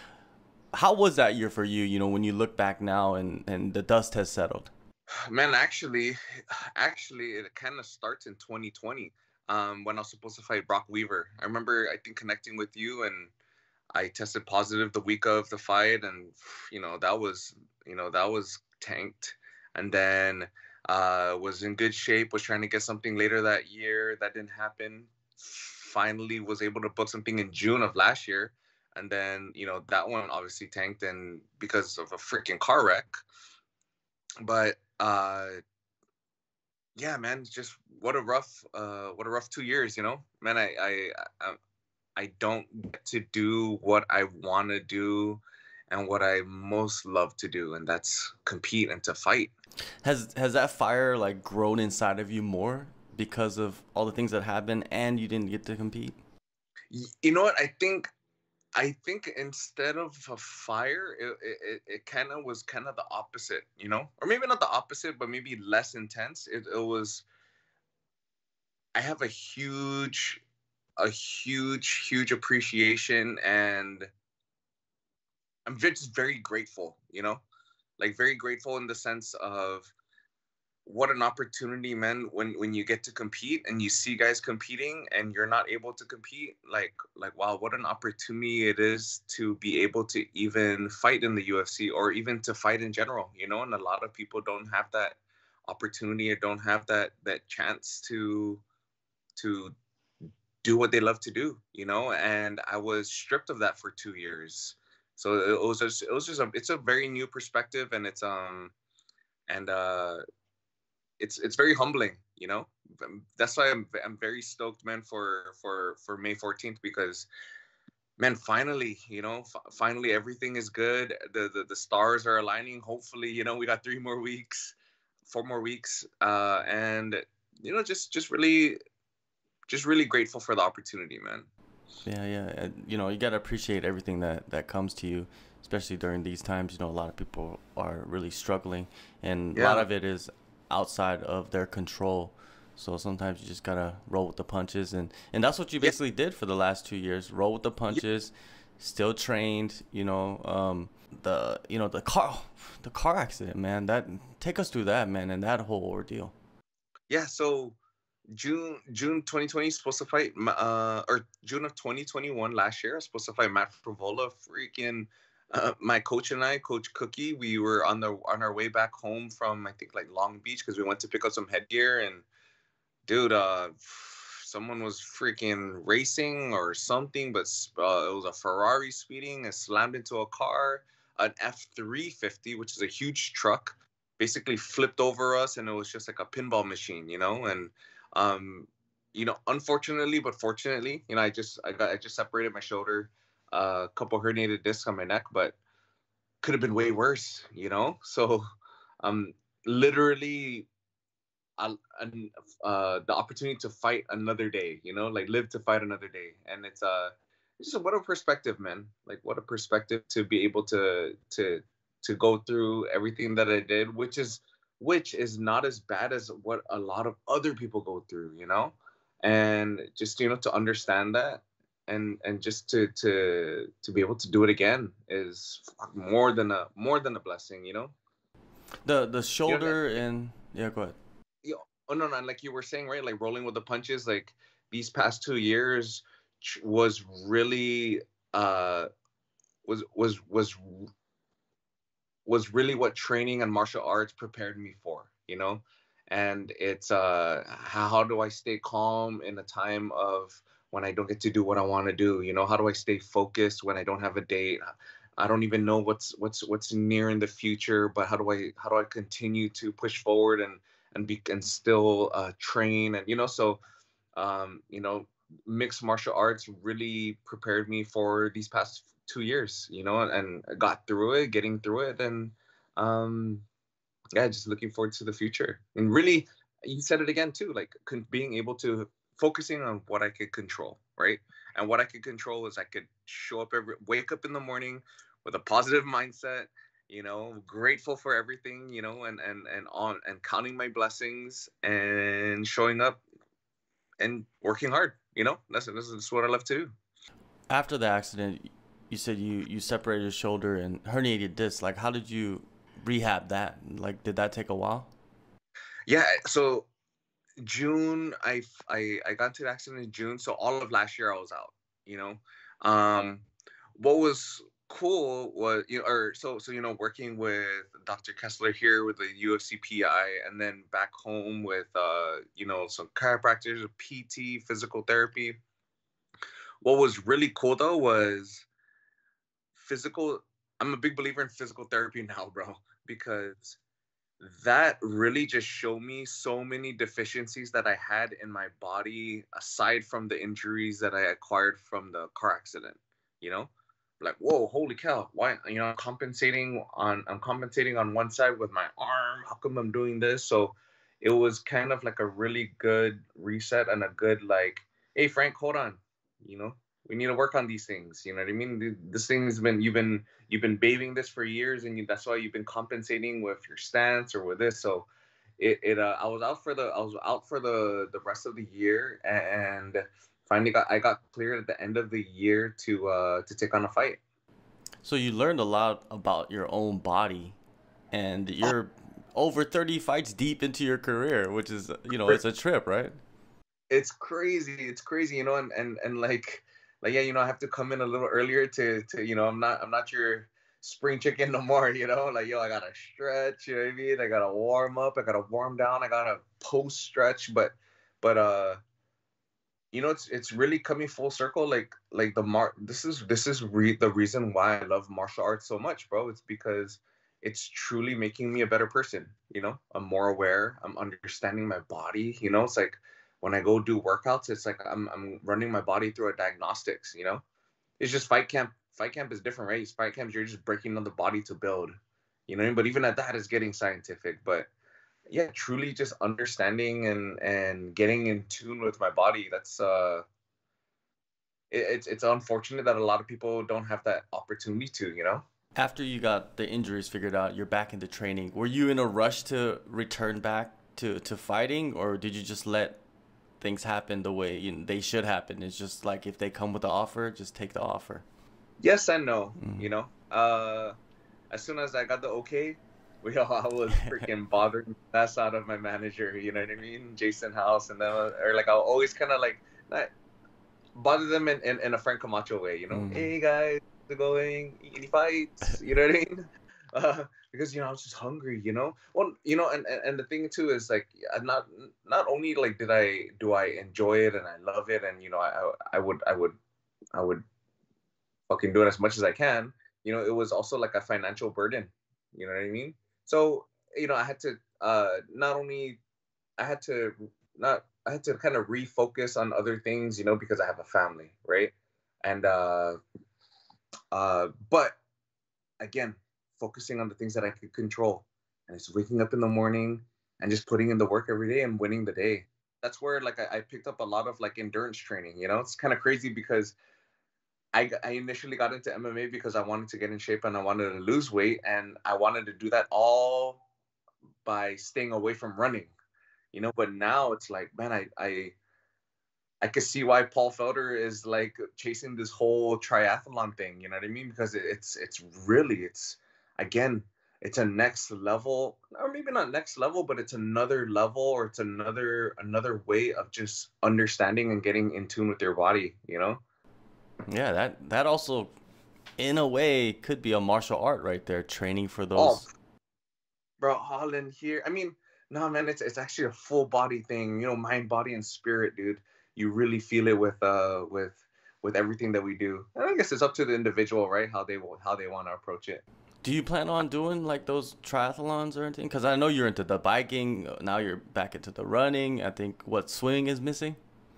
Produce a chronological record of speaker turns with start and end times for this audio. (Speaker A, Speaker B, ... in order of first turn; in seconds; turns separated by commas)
Speaker A: 0.7-4.7, Speaker B: 5.3-13.3, Speaker B: 13.9-33.2, Speaker B: 34.4-35.6, Speaker B: 37.0-41.6, Speaker B: 42.2-49.5, Speaker A: 50.0-56.2, Speaker B: 56.9-58.1, Speaker B: 58.8-67.2, Speaker B: 68.9-70.4, Speaker B: 71.0-74.1, Speaker B: 75.7-77.4, Speaker B: 78.0-79.9, Speaker B: 80.8-98.6, Speaker B: 99.4-99.7, Speaker B: 100.6-108.7, Speaker B: 109.5-110.2, Speaker B: 111.2-117.3, Speaker B: 118.2-124.8, Speaker B: 125.3-128.8, Speaker B: 129.7-131.5, Speaker A: 132.0-156.3, Speaker B: 139.5-139.8, Speaker B: 157.1-157.8, Speaker B: 158.3-172.2, Speaker B: 173.1-195.6, Speaker B: 196.4-198.4, Speaker B: 199.0-200.7, Speaker B: 201.6-227.9, Speaker A: 228.8-230.9, Speaker B: 229.5-229.8, Speaker B: 231.4-238.9, Speaker B: 239.7-240.9, Speaker B: 242.2-263.6, Speaker B: 264.2-273.4, Speaker B: 274.1-293.0, Speaker B: 294.0-296.7, Speaker A: 297.5-304.9, Speaker B: 305.9-306.7, Speaker B: 307.4-325.4, Speaker B: 326.6-328.5, Speaker B: 329.6-333.6, Speaker B: 334.2-364.9, Speaker B: 365.4-374.0, Speaker A: 374.8-377.4, Speaker A: 377.9-383.0, Speaker B: 383.7-398.6, Speaker B: 399.7-417.2, Speaker B: 417.8-421.7, Speaker B: 422.3-424.5, Speaker B: 425.1-430.0, Speaker B: 431.5-435.2, Speaker A: 435.6-442.8, Speaker A: 443.4-448.0, Speaker B: 448.6-450.7, Speaker A: 449.4-449.7, Speaker B: 451.3-459.9, Speaker B: 460.7-476.4, Speaker A: 462.7-463.1, Speaker B: 476.9-477.2, Speaker B: 478.3-485.8, Speaker B: 486.4-492.8, Speaker B: 493.9-494.8, Speaker B: 495.6-506.5, Speaker B: 507.5-513.4, Speaker B: 514.2-515.7, Speaker B: 516.3-518.4, Speaker B: 519.4-536.2, Speaker A: 537.1-538.3, Speaker A: 539.0-542.2, Speaker B: 541.9-542.2, Speaker B: 543.4-555.6, Speaker A: 556.0-563.6